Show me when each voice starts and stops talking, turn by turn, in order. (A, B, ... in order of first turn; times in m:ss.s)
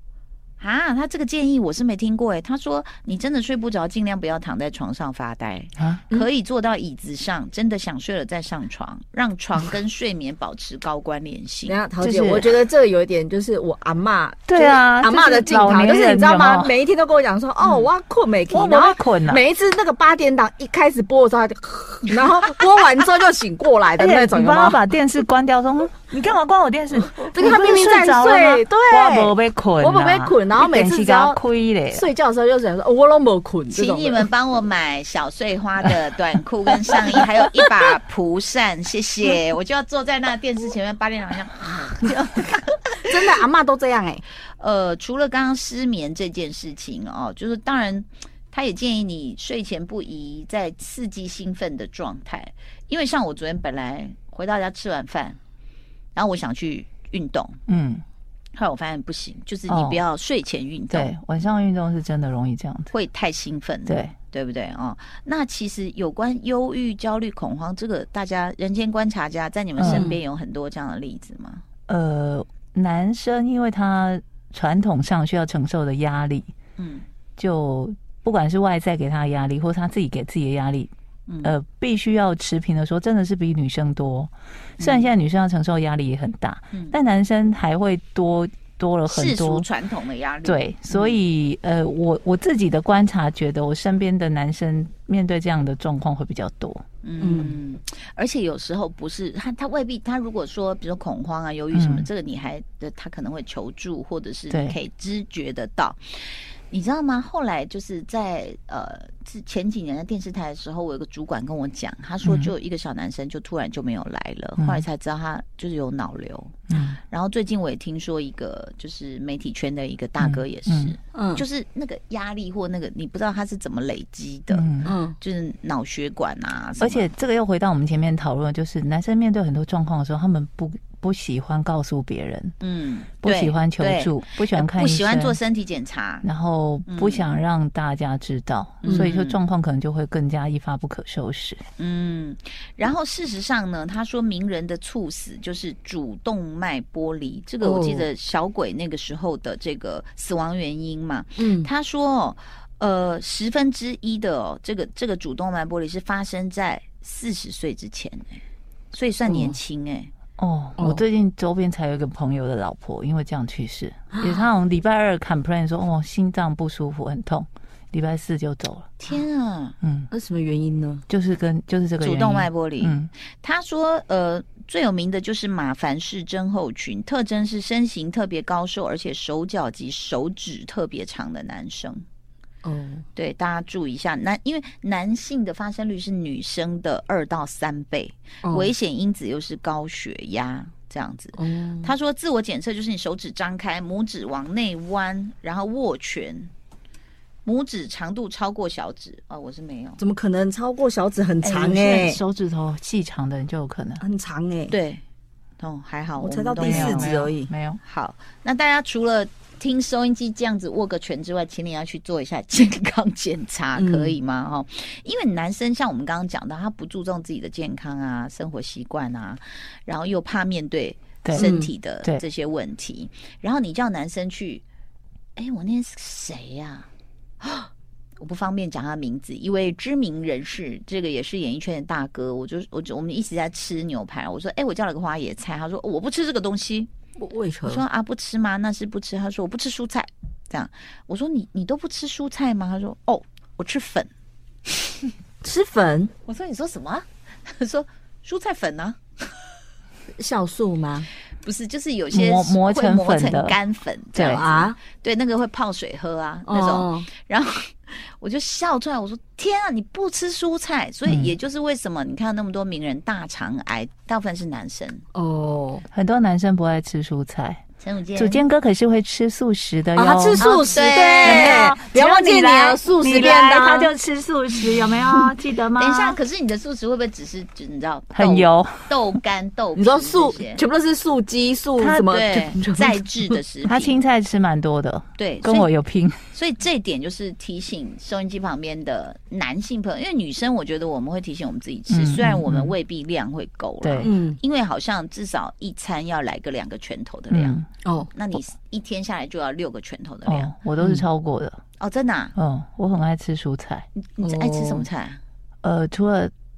0:00.6-0:11.8 A
0:05.8-0:06.0 B
0:11.7-0:24.8 C
0:12.0-0:12.5 B
0:14.5-0:16.7 B
0:18.5-0:19.4 B
0:24.0-0:32.0 B
0:27.2-0:34.3 C
0:33.7-0:43.3 A
0:43.0-0:44.2 C
0:44.6-0:55.4 A
0:56.1-0:57.6 A
0:57.7-0:58.0 B
0:58.5-1:01.1 A
0:59.7-1:00.0 B
1:00.9-1:02.9 B
1:02.9-1:11.6 A
1:03.9-1:04.1 B
1:09.8-1:10.1 B
1:09.8-1:10.2 C
1:11.9-1:16.5 B
1:16.8-1:17.0 A
1:17.4-1:20.9 B
1:21.3-1:21.5 A
1:21.4-1:29.6 B
1:24.8-1:25.1 A
1:29.1-1:31.2 A
1:30.4-1:36.8 B
1:37.0-2:07.1 A
1:37.2-1:37.6 C
1:41.7-1:42.1 B
1:44.5-1:44.8 B
1:52.2-1:52.5 B
1:54.6-1:54.8 B
1:56.7-1:57.0 B
2:00.2-2:00.9 B
2:01.1-2:01.4 C
2:04.5-2:04.9 B
2:04.8-2:05.1 C
2:06.8-2:12.5 B
2:12.6-2:16.2 A
2:13.2-2:15.4 B
2:16.2-2:21.6 B
2:16.8-2:17.3 A
2:18.8-2:19.4 A
2:18.9-2:19.1 C
2:21.8-2:38.4 A
2:27.6-2:28.1 C
2:31.4-2:31.7 C
2:38.9-2:40.1 A
2:39.2-2:39.6 C
2:40.4-2:48.9 B
2:40.8-2:41.0 C
2:44.1-2:44.4 C
2:49.0-2:49.7 A
2:49.8-2:50.1 B
2:50.1-2:51.0 C
2:51.1-2:53.1 B
2:52.0-3:02.0 A
3:02.6-3:03.0 C
3:03.1-3:16.5 A
3:08.4-3:08.7 C
3:11.4-3:11.9 C
3:17.4-3:20.0 A
3:20.0-3:22.2 C
3:21.4-3:24.0 B
3:24.0-3:24.7 C
3:24.7-3:25.0 A
3:25.6-3:27.1 A
3:26.2-3:27.5 C
3:26.6-3:27.8 B
3:27.8-3:44.6 A
3:33.8-3:34.2 C
3:41.2-3:41.5 B
3:41.3-3:41.7 C
3:45.4-3:46.9 A
3:47.4-3:56.9 A
3:57.2-3:57.8 C
3:57.6-4:04.1 A
4:05.4-4:06.1 C
4:06.2-4:09.0 A
4:10.2-4:11.1 C
4:11.4-4:25.0 A
4:12.1-4:13.6 B
4:14.1-4:14.4 B
4:14.2-4:14.8 C
4:16.5-4:17.1 C
4:21.1-4:21.3 B
4:25.1-4:25.8 C
4:25.9-4:27.6 B
4:27.8-4:28.4 A
4:28.2-4:30.6 B
4:30.0-4:33.9 C
4:30.4-4:31.7 A
4:31.2-4:36.2 B
4:35.8-4:40.6 A
4:38.1-4:38.9 B
4:39.8-4:43.4 C
4:41.8-4:42.0 B
4:42.0-4:44.0 A
4:43.6-4:46.2 B
4:45.2-4:45.7 A
4:46.3-4:57.6 A
4:51.9-4:52.7 B
4:53.8-4:54.1 B
4:54.0-4:54.4 C
4:57.3-4:57.6 B
4:57.8-4:58.1 C
4:58.1-5:00.5 A
5:00.2-5:01.6 B
5:01.8-5:02.3 A
5:02.3-5:03.9 B
5:04.0-5:05.2 A
5:04.2-5:04.9 C
5:05.6-5:06.3 B